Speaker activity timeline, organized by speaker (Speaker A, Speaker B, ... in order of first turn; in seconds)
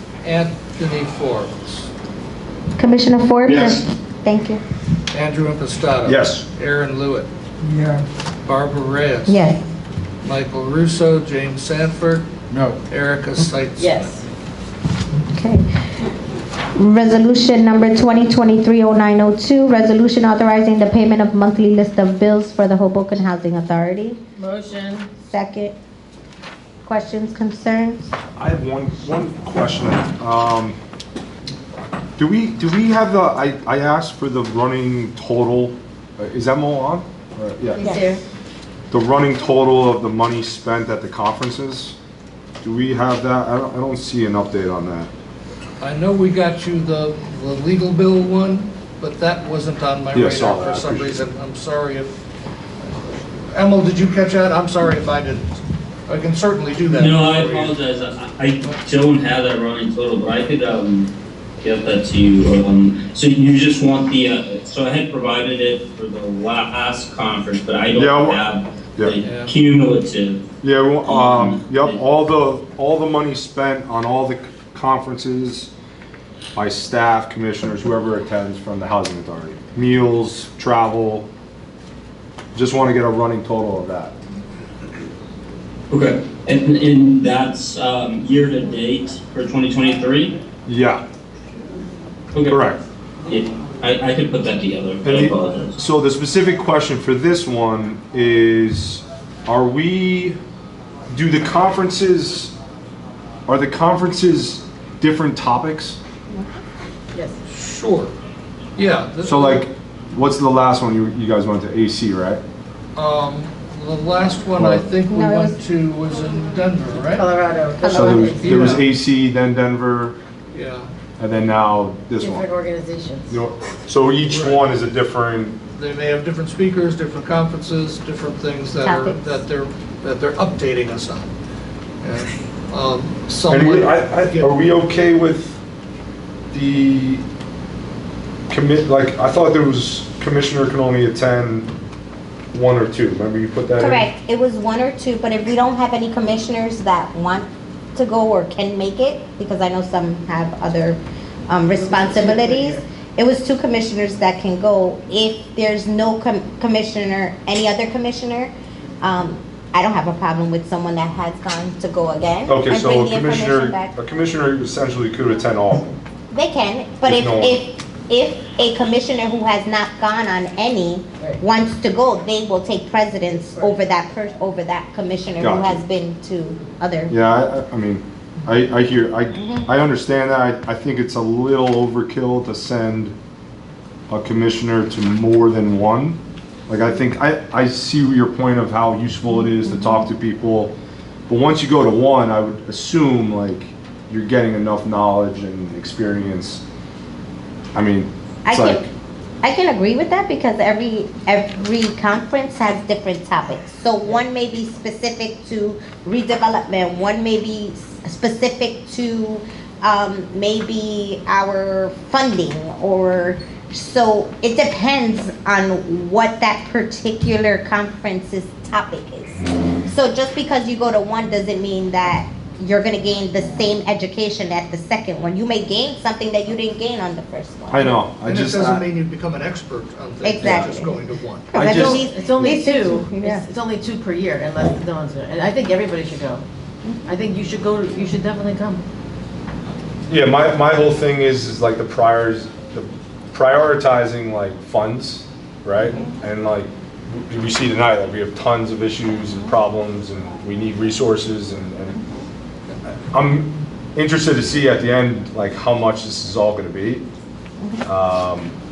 Speaker A: 0.2-1.9, 5.1-7.3, 8.4-9.4, 10.2-14.2, 45.8-52.1, 53.5-57.8, 69.2-69.5, 107.5-108.1, 108.8-109.7, 113.0-117.3, 118.3-118.9, 120.5-120.9, 124.3-124.7, 125.7-131.3, 132.0-134.6, 228.2-231.5
Speaker B: 2.8-4.6, 9.3-9.7, 15.3-15.8, 16.8-24.2, 25.2-25.8, 26.9-28.1, 37.8-38.1, 106.3-106.6, 115.1-115.6, 117.8-118.3, 128.8-129.4, 143.8-163.9, 166.3-177.2, 198.5-198.9, 199.4-228.0, 230.2-231.0, 231.5-233.4
Speaker C: 3.5-3.8, 56.9-70.4, 71.1-72.0, 85.9-90.4, 92.3-92.6, 93.3-95.8
Speaker D: 6.0-6.5, 28.4-30.8, 32.2-37.9, 38.9-42.0, 42.6-45.1, 50.1-51.2, 67.9-68.4, 70.6-75.7, 76.5-81.3, 82.5-84.1, 90.7-91.0, 92.5-92.8, 95.0-100.4, 101.1-102.5, 103.5-106.0, 109.2-112.4, 114.5-114.9, 117.8-120.2, 121.2-122.5, 123.3-125.6, 133.5-135.6, 136.5-137.2, 138.5-141.7, 142.5-144.1, 162.5-165.9, 167.1-167.6, 175.4-175.8, 177.1-183.2, 184.1-190.7, 191.3-196.6, 197.8-198.8, 227.7-228.8, 230.4-230.8, 231.5-232.5, 240.1-252.0, 253.1-257.1, 257.9-258.5
Speaker E: 13.8-14.2, 24.4-25.2, 37.8-38.2, 117.2-118.5, 122.2-123.4, 151.8-152.8, 231.6-236.4, 237.1-238.8